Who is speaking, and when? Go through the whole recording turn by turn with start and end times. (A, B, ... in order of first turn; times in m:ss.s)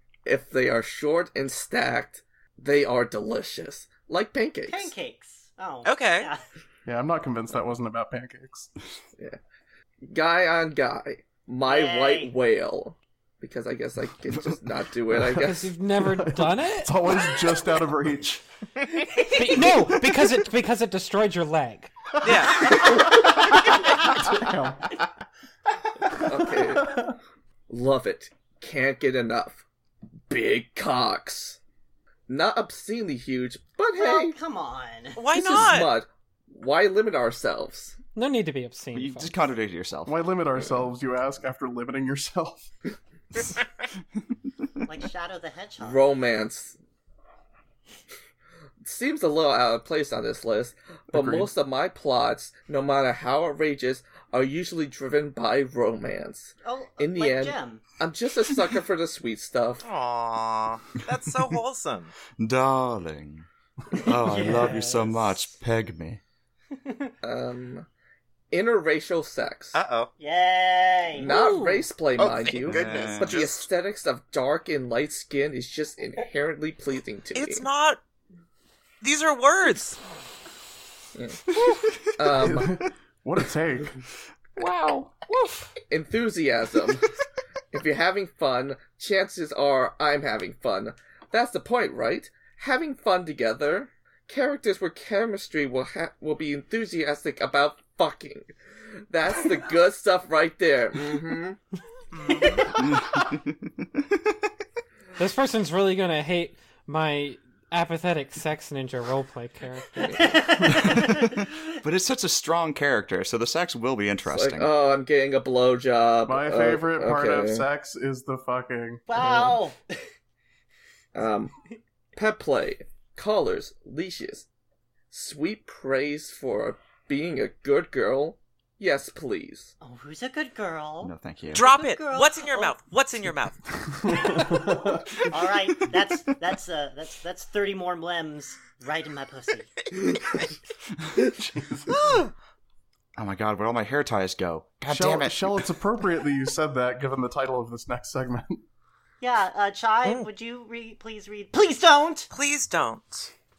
0:00.2-0:04.9 A
0:04.7-0:06.4 B
0:05.8-0:06.3 C
0:06.8-0:08.7 D
0:10.0-0:15.7 A
0:11.7-0:12.3 B
0:15.4-0:16.9 E
0:15.9-0:18.4 D
0:19.2-0:21.9 E
0:22.2-0:22.9 C
0:23.2-0:24.9 D
0:26.1-0:27.1 D
0:26.1-0:27.0 A
0:27.7-0:29.6 A
0:30.3-0:31.6 A
0:32.3-0:34.3 A
0:33.9-0:35.2 B
0:35.2-0:35.9 C
0:35.3-0:38.0 A
0:38.1-0:39.4 E
0:38.9-0:40.2 F
0:40.0-0:42.7 D
0:44.8-0:46.0 B
0:45.8-0:46.8 A
0:48.8-0:59.8 A
0:51.1-0:51.5 D
0:56.6-0:57.8 B
0:59.8-1:02.1 C
1:02.3-1:06.2 F
1:04.1-1:05.5 B
1:06.8-1:07.1 B
1:07.2-1:07.9 A
1:08.5-1:09.8 A
1:09.7-1:10.1 C
1:10.2-1:11.3 B
1:11.2-1:17.7 A
1:12.2-1:13.6 F
1:12.2-1:13.6 C
1:17.3-1:18.0 C
1:19.0-1:20.0 C
1:21.1-1:21.5 A
1:21.6-1:22.3 F
1:22.1-1:22.7 A
1:22.3-1:24.0 D
1:24.6-1:25.4 F
1:25.9-1:27.1 A
1:27.7-1:38.5 A
1:39.1-1:41.6 A
1:42.1-1:42.6 C
1:42.8-1:44.0 F
1:45.2-1:50.8 E
1:50.2-1:51.3 B
1:50.8-1:54.7 F
1:54.3-1:57.6 A
1:56.2-1:59.0 D
1:59.1-2:00.0 B
1:59.2-1:59.5 A
2:01.1-2:01.5 A
2:02.1-2:04.4 A
2:05.1-2:09.7 A
2:09.8-2:12.8 B
2:11.0-2:11.6 F
2:11.5-2:14.1 C
2:13.9-2:15.2 D
2:14.1-2:14.7 B
2:15.2-2:19.7 B
2:21.3-2:21.9 D
2:23.2-2:25.7 F
2:24.9-2:28.6 D
2:29.2-2:32.3 B
2:32.3-2:33.3 C